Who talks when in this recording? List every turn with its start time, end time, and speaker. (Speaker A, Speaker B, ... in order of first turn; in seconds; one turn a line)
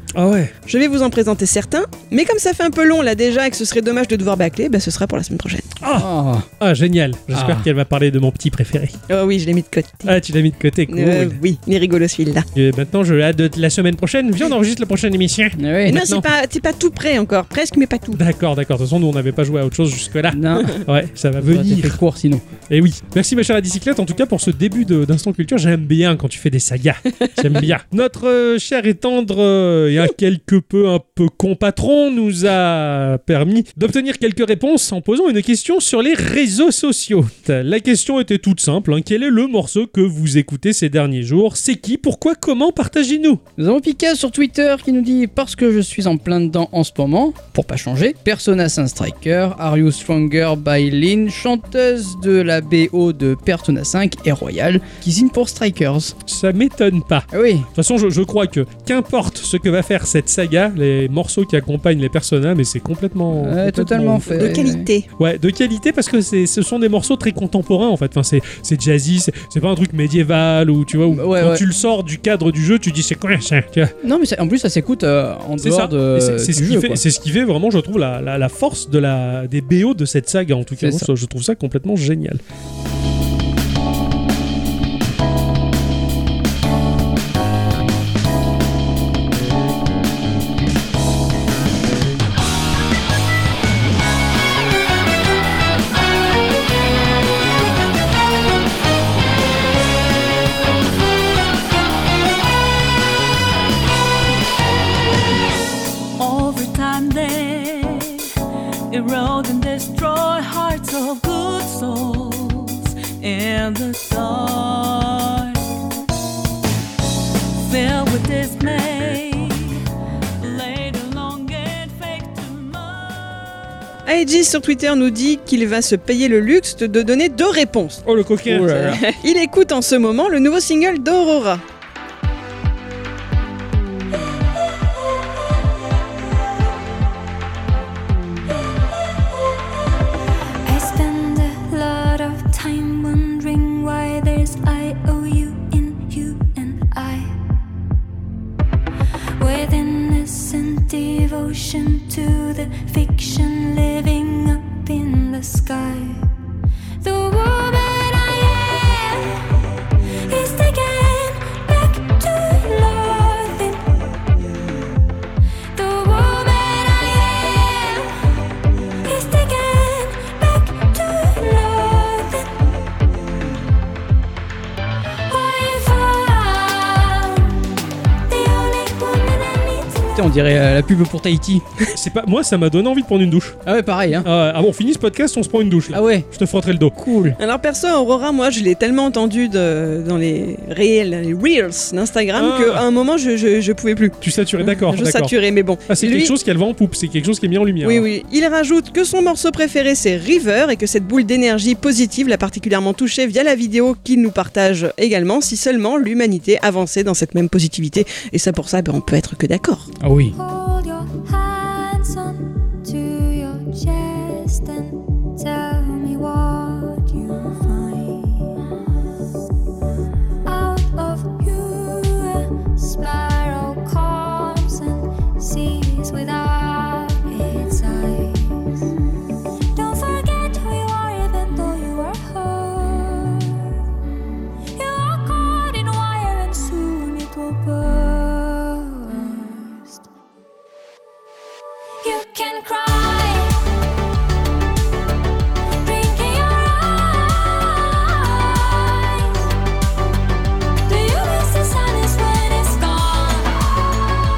Speaker A: 0.1-0.5
Speaker B: 0.7-5.7
Speaker A: 5.8-6.1
Speaker C: 5.9-6.5
Speaker A: 6.6-9.0
Speaker C: 7.3-7.7
Speaker B: 9.1-10.1
Speaker A: 10.1-11.4
Speaker B: 10.9-12.5
Speaker A: 12.6-16.3
Speaker C: 15.6-16.0
Speaker B: 15.9-18.2
Speaker A: 18.1-22.0
Speaker C: 20.3-20.8
Speaker C: 21.4-22.4
Speaker A: 22.7-43.4
Speaker C: 43.6-56.1
Speaker A: 56.3-64.6
Speaker C: 57.3-57.7
Speaker C: 63.4-64.9
Speaker B: 64.4-65.1
Speaker A: 65.2-73.9
Speaker C: 71.1-71.7
Speaker C: 74.0-77.0
Speaker A: 75.6-82.4
Speaker C: 80.8-81.1
Speaker D: 106.2-108.3
Speaker D: 108.9-115.6
Speaker D: 117.7-119.8
Speaker D: 120.4-123.4
Speaker B: 124.1-128.0
Speaker A: 128.1-129.0
Speaker C: 128.5-129.0
Speaker B: 128.9-131.6
Speaker E: 140.7-147.4
Speaker E: 149.4-156.2
Speaker E: 157.0-159.4
Speaker E: 160.3-163.9
Speaker E: 165.7-168.1
Speaker E: 169.0-172.5
Speaker E: 175.3-177.5
Speaker E: 178.3-180.1
Speaker C: 180.2-181.7
Speaker A: 181.9-183.6
Speaker C: 183.7-184.3
Speaker A: 184.2-187.0
Speaker C: 185.9-186.3
Speaker C: 187.0-187.4
Speaker B: 187.4-196.3
Speaker A: 192.3-192.8
Speaker A: 194.2-195.3
Speaker A: 195.9-198.1
Speaker B: 197.8-209.9
Speaker C: 210.0-210.3
Speaker E: 210.3-218.7
Speaker E: 220.4-228.9
Speaker E: 229.7-233.7
Speaker E: 234.8-240.1
Speaker E: 242.0-243.6
Speaker E: 245.8-249.5
Speaker E: 250.9-253.8